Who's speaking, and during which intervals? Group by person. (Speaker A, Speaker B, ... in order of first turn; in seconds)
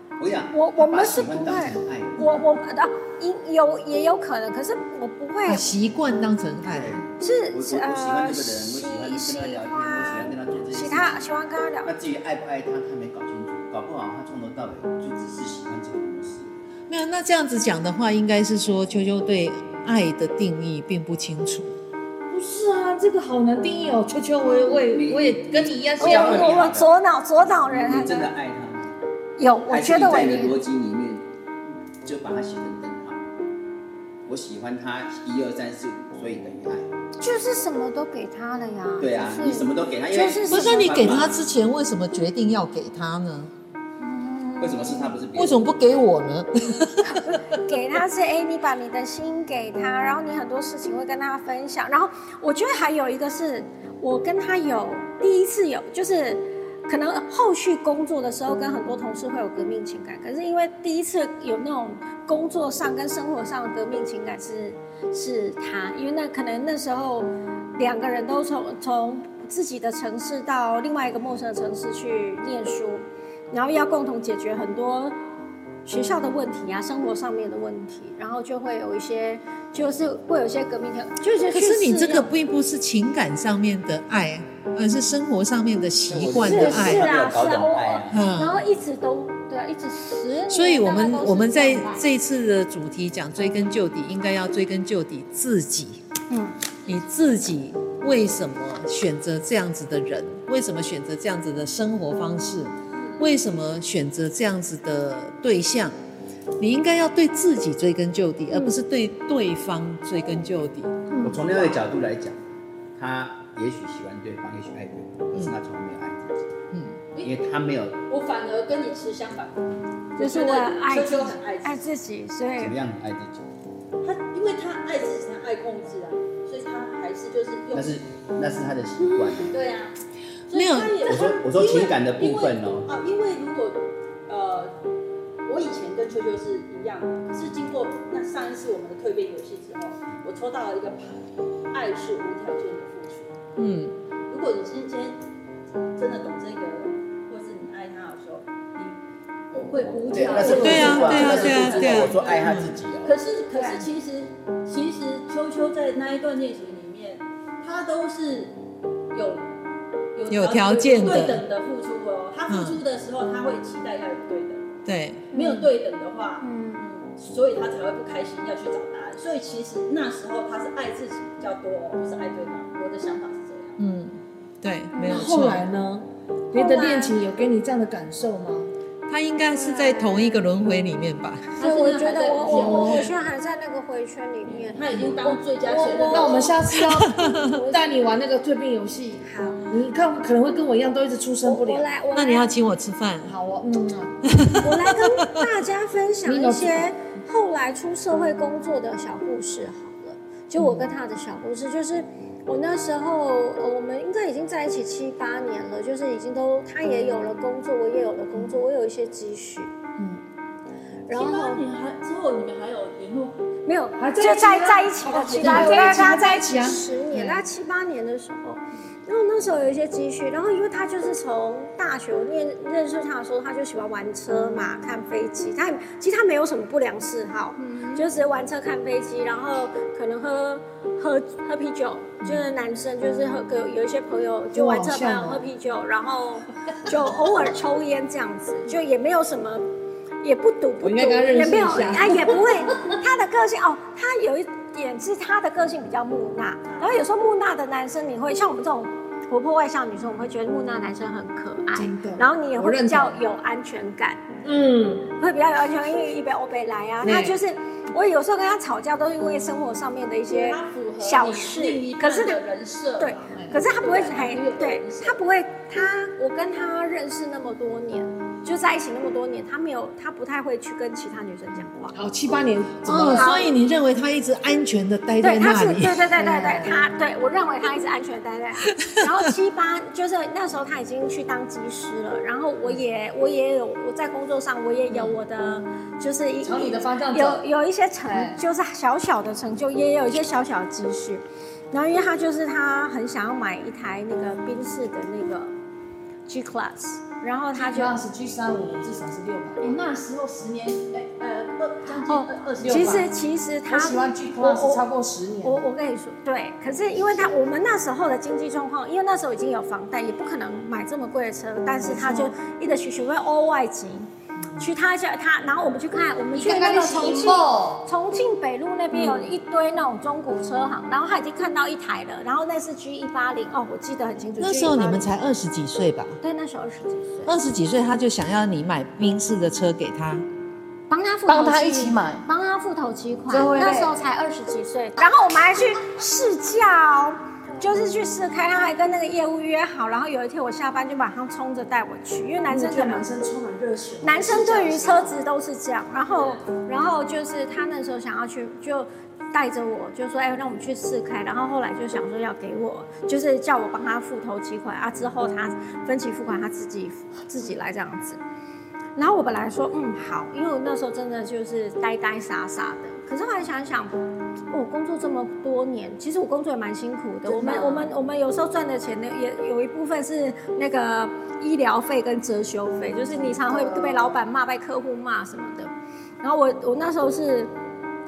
Speaker A: 0.2-2.4, 6.7-11.2, 11.8-16.5, 24.6-26.9, 27.7-28.9, 29.7-31.2, 32.0-33.2, 34.2-36.9, 39.0-41.3, 44.6-45.6, 86.1-88.2, 111.2-116.5, 117.2-118.0, 122.6-123.4, 127.7-129.6, 131.0-132.9, 150.1-153.1
Speaker B: 0.5-5.7, 7.2-11.9, 26.0-28.3, 29.4-30.6, 37.2-41.3, 44.0-45.1, 47.1-75.2, 75.8-82.3, 86.4-92.0, 96.3-96.6, 120.2-122.7, 150.4-151.2, 165.3-165.7, 166.4-166.8, 174.9-175.4, 179.5-180.3, 181.6-185.4, 185.9-186.5, 187.2-187.9, 191.4-192.4, 194.5-209.7, 211.1-211.6, 213.7-239.6, 240.2-254.2, 255.1-262.4, 263.0-271.9, 272.9-273.5, 275.2-295.5, 296.3-298.0, 302.0-304.8, 305.4-325.0, 326.2-327.3, 330.9-343.1, 344.0-358.2, 358.9-363.9, 364.5-377.5
Speaker C: 5.5-7.0, 16.9-21.7, 40.5-43.5, 45.3-47.4, 81.5-87.1, 88.1-88.6, 90.5-96.0, 96.8-105.9, 106.6-111.1, 116.7-117.0, 130.5-131.0, 143.6-143.9, 150.5-152.8, 160.3-161.4, 162.5-162.8, 164.8-165.3, 173.8-175.7, 179.1-181.5, 182.6-182.9, 186.7-187.6, 192.1-193.3, 194.2-195.5, 272.8-276.1, 324.4-326.2, 327.2-330.2, 331.3-332.2
Speaker D: 22.3-26.6, 150.0-151.4, 175.1-178.7, 182.5-183.0, 185.7-191.9, 193.2-194.2, 196.2-196.8, 214.0-217.4, 232.2-232.5, 234.5-235.5, 240.8-242.9, 251.7-253.2, 254.4-255.1, 257.0-257.4, 263.3-263.6, 271.9-273.3, 276.1-276.8, 284.9-285.1, 286.4-287.4, 288.0-288.4, 297.5-299.8, 302.6-303.1, 303.7-305.6, 311.8-312.3, 316.3-317.9, 331.4-332.1, 333.3-334.0, 342.5-345.2, 367.2-367.9, 373.1-374.2
Speaker E: 111.5-111.8, 118.1-119.6, 120.2-121.8, 124.0-128.0, 129.3-129.9, 130.5-134.7, 135.4-143.3, 144.3-145.2, 145.9-148.9, 149.5-158.5, 159.1-159.4, 160.1-164.6, 165.3-173.8, 176.5-177.2, 181.6-183.2, 184.5-186.6, 211.1-213.4, 215.1-216.0, 227.6-228.1, 246.7-246.9, 260.3-265.2, 299.6-303.1